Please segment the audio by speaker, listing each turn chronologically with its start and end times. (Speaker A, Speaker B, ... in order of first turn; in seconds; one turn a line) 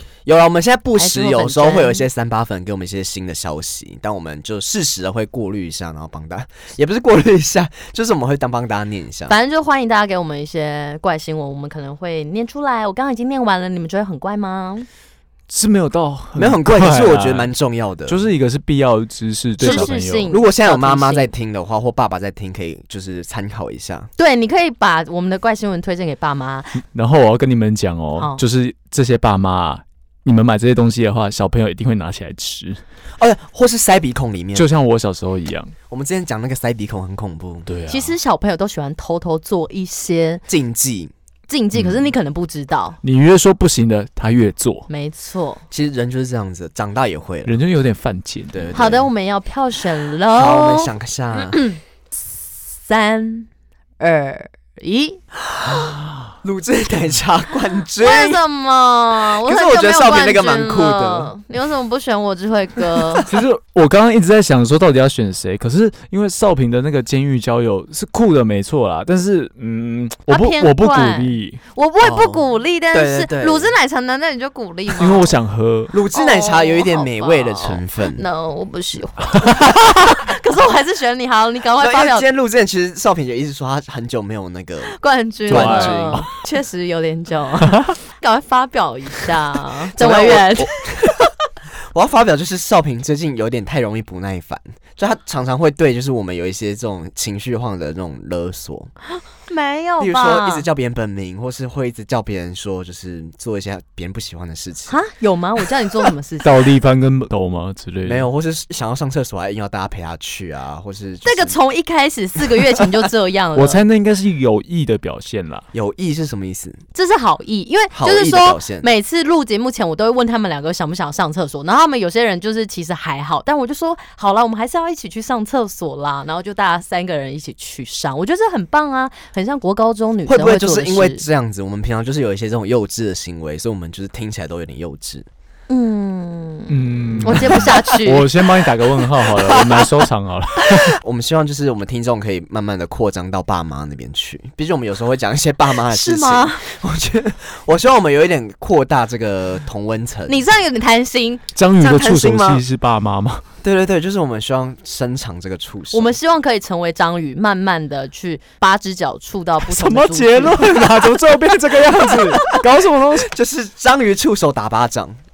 Speaker A: 0.3-9.3
Speaker B: 1.0-2.1
Speaker B: 9.3-14.9
Speaker C: 15.5-17.5
Speaker A: 16.4-18.2
Speaker C: 18.1-20.3
Speaker B: 19.6-21.3
Speaker A: 19.6-24.1
Speaker B: 24.2-26.8
Speaker C: 26.9-32.8
Speaker A: 33.2-34.7
Speaker C: 34.5-35.7
Speaker A: 35.9-37.7
Speaker C: 37.7-38.2
Speaker B: 37.9-40.4
Speaker A: 40.5-41.1
Speaker B: 41.5-43.0
Speaker C: 41.7-42.1
Speaker C: 43.0-44.9
Speaker B: 44.9-45.6
Speaker A: 45.7-47.5
Speaker C: 47.5-48.8
Speaker A: 48.5-49.1
Speaker B: 48.7-51.8
Speaker A: 50.3-51.6
Speaker B: 52.4-53.5
Speaker B: 54.0-55.2
Speaker A: 55.5-58.4
Speaker C: 55.8-56.3
Speaker B: 58.0-63.3
Speaker A: 59.2-61.3
Speaker A: 63.1-63.4
Speaker C: 63.3-71.6
Speaker B: 70.3-75.4
Speaker A: 72.0-73.7
Speaker C: 75.0-75.9
Speaker A: 75.9-78.2
Speaker B: 76.1-82.3
Speaker C: 79.4-80.0
Speaker A: 81.8-86.3
Speaker B: 84.9-90.7
Speaker C: 85.5-86.3
Speaker A: 89.9-91.3
Speaker A: 91.9-98.9
Speaker B: 99.1-100.7
Speaker A: 100.0-105.0
Speaker B: 104.9-106.7
Speaker C: 106.4-108.3
Speaker A: 108.0-111.6
Speaker B: 111.2-113.8
Speaker C: 113.5-115.7
Speaker A: 115.7-116.8
Speaker B: 116.9-131.3
Speaker A: 117.9-118.9
Speaker A: 130.3-135.3
Speaker B: 135.7-138.3
Speaker C: 136.7-141.0
Speaker A: 137.2-137.8
Speaker B: 139.4-139.8
Speaker A: 140.7-150.4
Speaker B: 145.9-146.7
Speaker B: 150.3-151.4
Speaker C: 151.6-153.4
Speaker A: 151.8-152.7
Speaker A: 153.6-156.2
Speaker B: 155.9-160.9
Speaker C: 159.6-163.3
Speaker A: 163.3-165.2